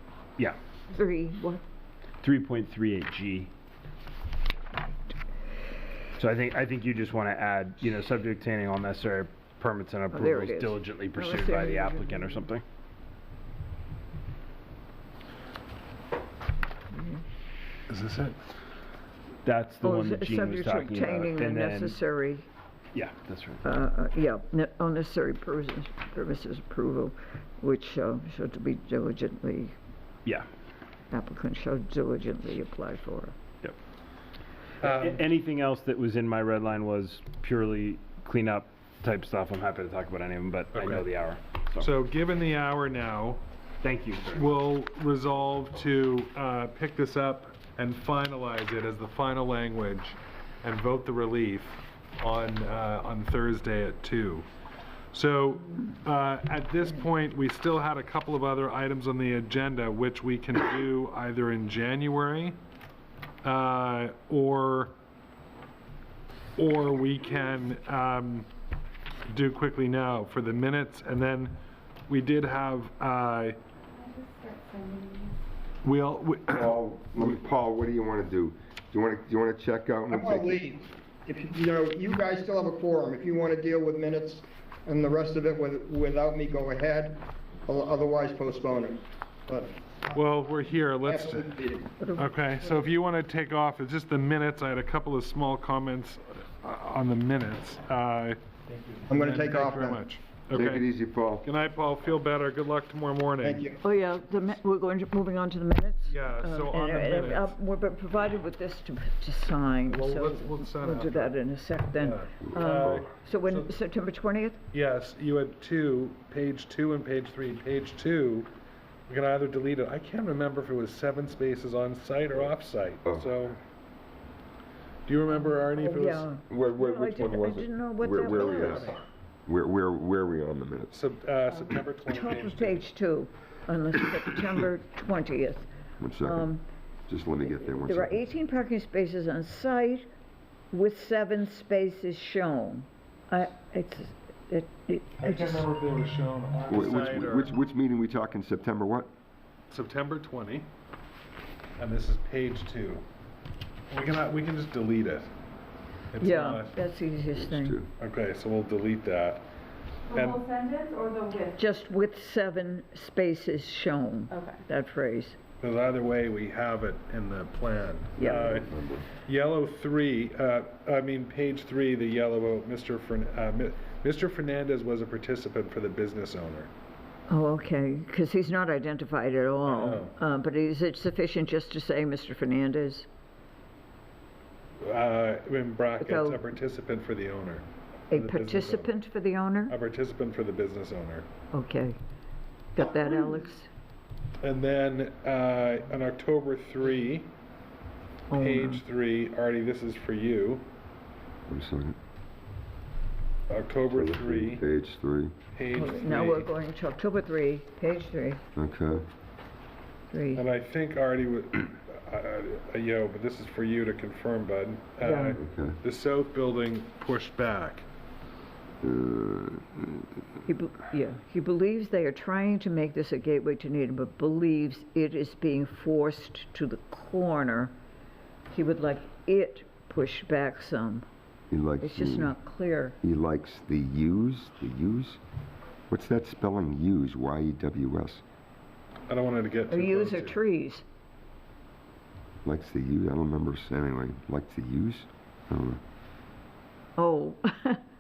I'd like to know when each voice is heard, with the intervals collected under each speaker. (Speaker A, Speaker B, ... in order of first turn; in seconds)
Speaker A: 0.9-1.6, 10.1-12.5, 16.9-17.2, 19.8-22.5, 23.6-29.8, 31.1-33.4, 92.0-92.8, 103.8-114.6, 125.5-128.9, 132.1-135.7, 136.2-136.6, 137.6-140.1, 140.7-145.7, 156.2-157.8, 161.5-165.4, 168.2-168.6, 177.3-183.1, 186.0-186.4, 188.1-189.8, 191.5-192.0, 192.8-193.7, 198.3-198.8, 205.7-208.4, 210.1-210.4, 215.0-215.4, 220.5-227.7, 228.5-231.1, 231.8-233.0, 239.7-240.8, 247.0-247.8
Speaker B: 2.2-3.5, 6.2-12.6, 19.4-22.0, 22.9-23.6, 34.8-41.9, 43.8-44.6
Speaker C: 17.9-18.4, 34.8-35.2, 40.7-41.1, 41.8-43.4, 44.3-54.5, 55.1-62.6, 63.4-64.9, 66.6-68.5, 69.3-73.6, 75.8-76.8, 90.1-91.6, 92.2-100.8, 101.4-103.7, 106.1-107.5, 109.9-111.4, 112.0-113.7, 114.7-118.5, 119.1-123.6, 125.1-126.4, 128.1-129.0, 130.9-132.8, 145.2-147.5, 149.7-150.7, 151.8-153.1, 153.9-155.3, 156.1-156.8, 158.0-159.4, 160.1-160.5, 165.6-176.7, 179.6-180.2, 184.8-188.9, 189.7-191.3, 194.4-197.3, 198.3-200.7, 203.5-204.6, 205.6-206.5, 210.3-217.9, 239.1-240.4
Speaker D: 74.0-75.4, 160.1-161.6
Speaker E: 76.5-80.6, 100.5-101.5, 112.5-113.0, 126.5-128.9, 129.5-130.9, 136.0-136.5, 137.1-138.2, 146.7-149.1, 157.4-157.9, 168.4-169.1, 201.5-202.0, 203.9-205.3, 208.6-209.1, 215.4-215.8, 218.8-220.1, 231.5-232.3, 233.0-235.2, 235.9-238.2, 242.4-245.8
Speaker F: 80.1-90.2, 91.1-91.9, 99.1-100.0, 103.4-103.8